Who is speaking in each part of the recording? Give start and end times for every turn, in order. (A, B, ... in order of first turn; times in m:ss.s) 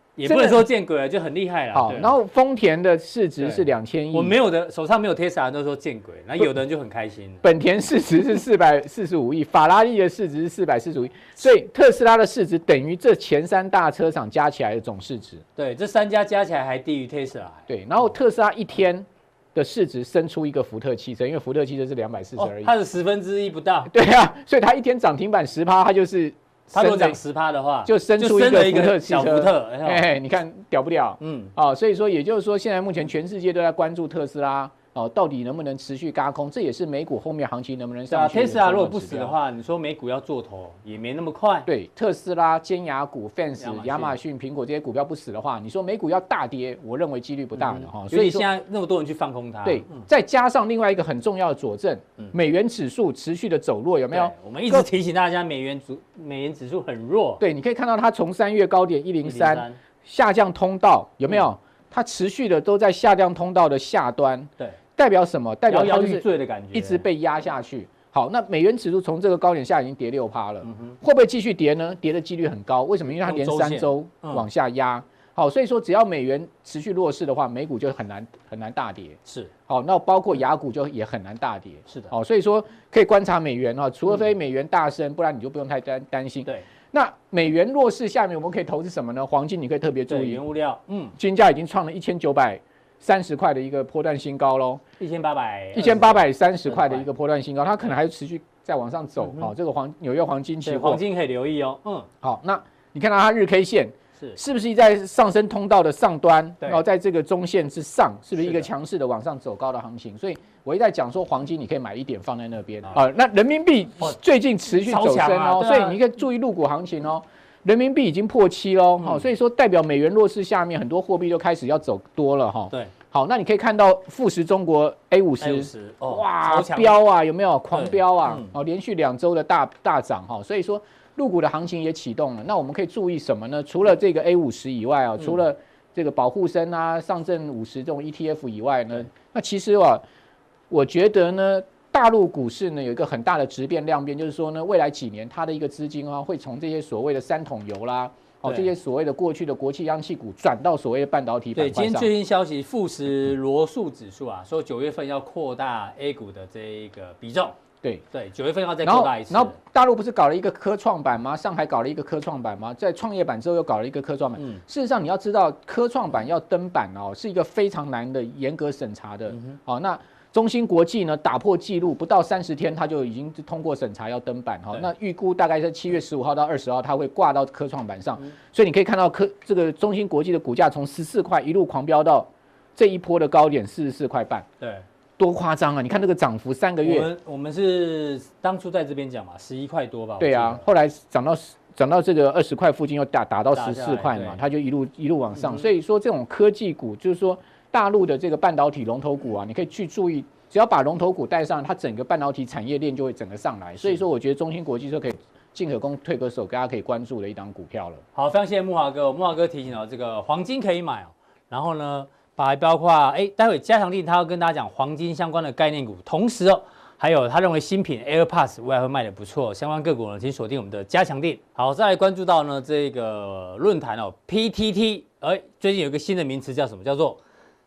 0:00.2-0:02.1 A
0:00.2-0:00.6 B
0:01.7-0:04.4 B
0:03.4-0:07.4 A
0:07.4-0:15.4 B
0:15.6-0:17.6 A
0:17.7-0:22.7 B
0:22.4-0:23.9 A
0:23.9-0:27.2 B
0:26.7-0:30.0 A
0:27.8-0:39.4 B
0:31.2-0:31.5 A
0:38.1-0:41.7 A
0:41.6-0:48.4 B
0:43.6-0:44.2 A
0:47.6-0:50.0 A
0:49.6-0:54.9 B
0:54.1-0:57.4 A
0:57.4-1:30.4 B
0:59.2-0:59.8 A
1:05.7-1:07.0 A
1:10.6-1:11.0 A
1:13.2-1:14.5 A
1:19.2-1:19.5 A
1:30.1-1:31.1 A
1:31.2-1:34.8 B
1:35.0-1:37.0 A
1:35.7-1:41.0 B
1:39.2-1:39.5 A
1:40.6-1:42.1 A
1:42.2-2:20.0 B
1:54.7-1:56.0 A
2:05.4-2:07.0 A
2:07.7-2:08.5 A
2:20.7-2:32.1 B
2:28.4-2:28.7 A
2:31.6-2:37.6 A
2:38.1-2:39.6 A
2:38.8-3:04.5 B
2:44.4-2:44.6 A
2:49.3-2:49.6 A
3:04.6-3:04.8 A
3:05.2-3:07.1 B
3:06.8-3:10.6 A
3:10.2-3:28.0 B
3:13.5-3:14.4 A
3:28.1-3:47.2 A